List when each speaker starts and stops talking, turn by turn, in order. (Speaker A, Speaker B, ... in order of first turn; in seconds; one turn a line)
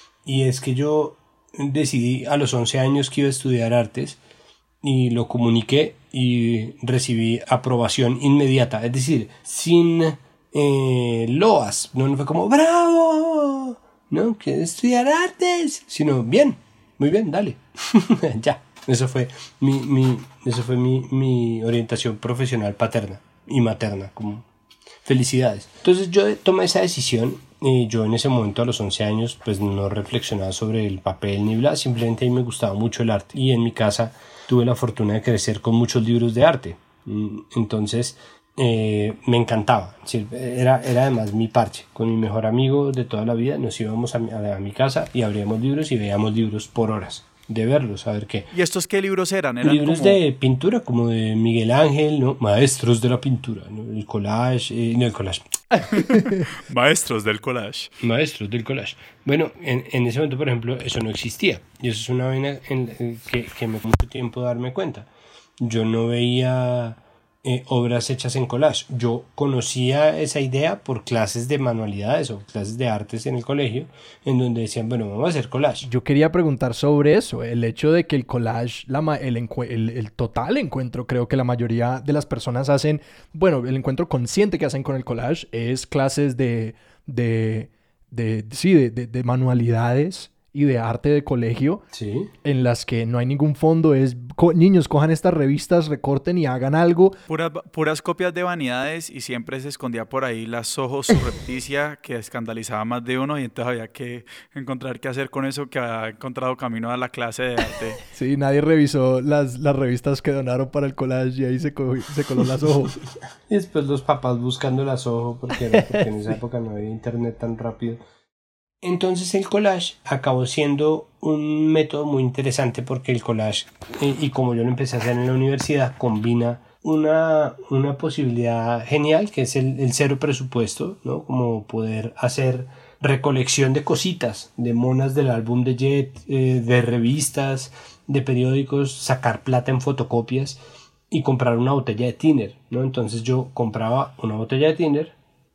Speaker A: 0.2-4.2
Speaker A: 4.8-24.5
Speaker A: 25.1-48.5
Speaker B: 48.5-50.2
Speaker A: 49.6-55.5
Speaker C: 55.7-56.5
Speaker B: 55.9-57.9
Speaker A: 58.0-65.1
Speaker A: 65.6-75.9
Speaker C: 75.8-91.8
Speaker A: 91.9-92.3
Speaker C: 92.4-97.2
Speaker B: 97.3-108.0
Speaker C: 108.1-113.0
Speaker A: 113.5-118.0
Speaker A: 118.8-140.6
Speaker A: 141.1-145.1